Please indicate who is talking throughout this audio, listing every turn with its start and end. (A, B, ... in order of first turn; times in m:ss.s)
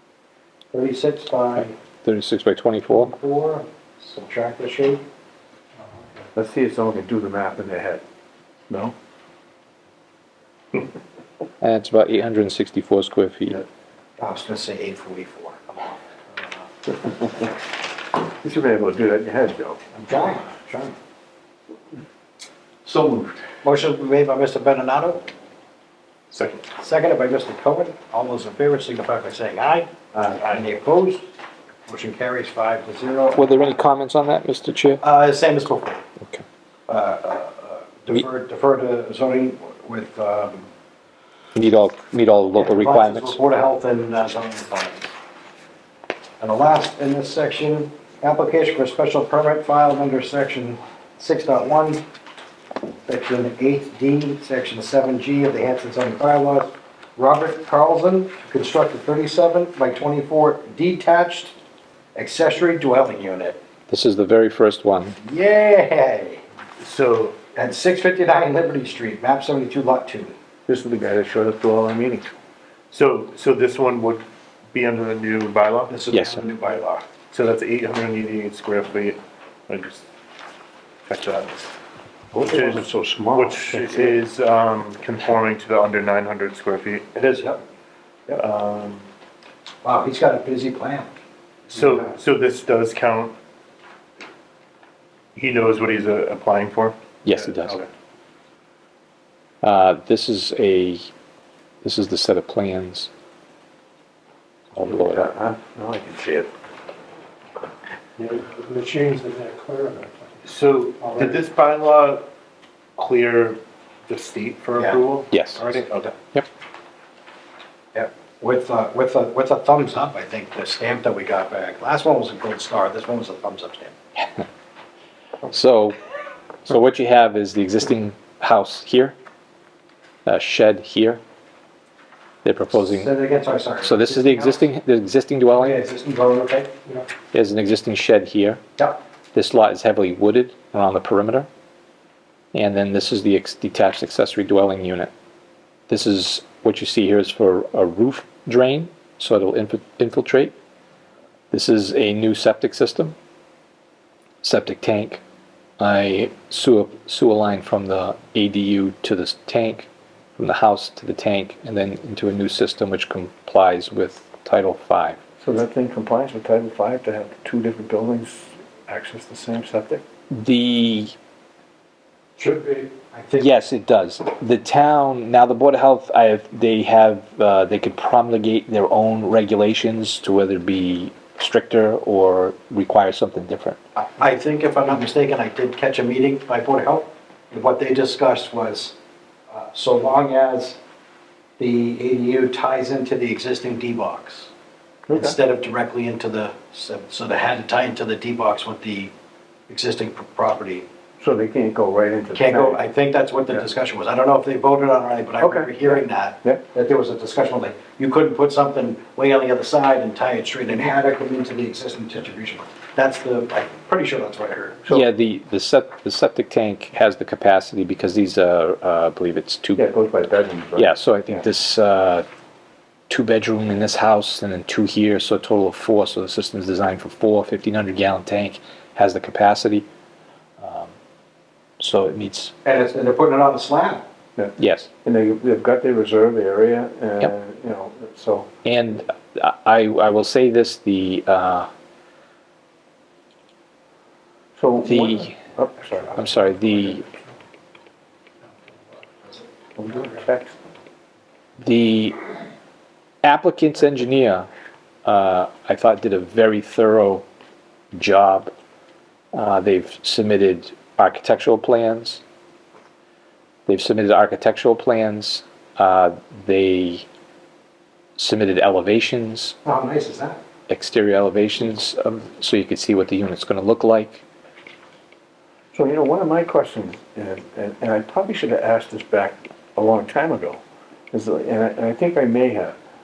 0:00.7-0:01.7 A
0:02.0-0:03.1 B
0:02.9-0:05.0 A
0:05.9-0:06.2 C
0:06.3-0:08.0 D
0:11.6-0:13.6 B
0:14.2-0:16.0 A
0:18.3-0:19.8 D
0:19.9-0:20.9 A
0:22.8-0:23.4 D
0:23.6-0:25.2 A
0:26.3-0:26.6 E
0:26.7-0:31.2 A
0:31.8-0:33.8 A
0:33.4-0:35.0 B
0:35.0-0:36.0 A
0:36.9-0:40.7 A
0:41.5-0:43.4 B
0:42.5-0:45.1 A
0:46.4-0:52.0 A
0:53.1-1:01.5 A
1:02.1-1:03.6 A
1:03.9-1:05.2 B
1:05.2-1:06.4 A
1:06.8-1:07.4 E
1:07.5-1:10.4 A
1:10.7-1:12.3 D
1:12.9-1:15.9 E
1:15.9-1:17.0 A
1:16.1-1:16.4 B
1:17.3-1:20.0 E
1:21.1-1:21.6 E
1:22.3-1:24.2 D
1:22.4-1:27.1 E
1:27.1-1:27.6 A
1:28.3-1:29.0 E
1:29.8-1:31.1 A
1:31.7-1:33.3 E
1:31.7-1:32.1 A
1:35.3-1:37.9 E
1:37.2-1:37.8 B
1:39.6-1:41.0 B
1:41.8-1:43.1 B
1:44.7-1:45.3 B
1:44.8-1:46.5 D
1:48.3-1:50.3 C
1:50.4-1:52.3 E
1:51.0-1:51.4 A
1:53.0-1:56.1 E
1:55.3-1:55.6 B
1:55.6-1:56.1 A
1:57.9-2:03.9 A
2:05.5-2:06.0 B
2:06.6-2:09.2 B
2:10.2-2:11.2 B
2:12.4-2:13.1 B
2:12.7-2:14.7 A
2:13.8-2:15.8 B
2:15.5-2:17.0 A
2:17.3-2:18.6 B
2:19.3-2:21.5 B
2:22.5-2:25.1 B
2:25.9-2:30.5 B
2:31.5-2:33.2 B
2:34.4-2:35.2 B
2:35.8-2:45.2 B
2:45.4-2:50.0 D
2:50.3-2:51.1 B
2:52.4-2:53.5 A
2:53.4-3:03.8 B
3:04.0-3:08.9 A
3:09.5-3:10.8 A
3:11.6-3:14.5 A
3:15.1-3:15.4 D
3:15.1-3:19.1 A
3:19.7-3:20.8 A
3:21.2-3:22.8 D
3:22.3-3:34.8 A
3:25.4-3:26.6 D
3:34.9-3:39.8 B
3:39.8-3:41.4 D
3:40.8-3:42.2 B
3:43.1-3:49.8 B
3:50.6-3:50.9 B
3:51.8-3:52.5 B
3:52.6-3:54.0 A
3:54.4-3:58.5 D
3:54.6-3:54.9 B
3:58.6-4:01.7 B
4:04.6-4:06.2 D
4:04.8-4:05.4 B
4:06.1-4:07.0 B
4:09.8-4:10.6 D
4:11.6-4:12.2 B
4:13.2-4:14.5 B
4:15.0-4:17.2 B
4:17.9-4:18.5 B
4:19.3-4:22.2 B
4:23.7-4:27.0 B
4:28.2-4:29.6 B
4:29.6-4:30.4 A
4:30.7-4:34.2 B
4:35.7-4:40.6 D
4:41.1-4:42.8 D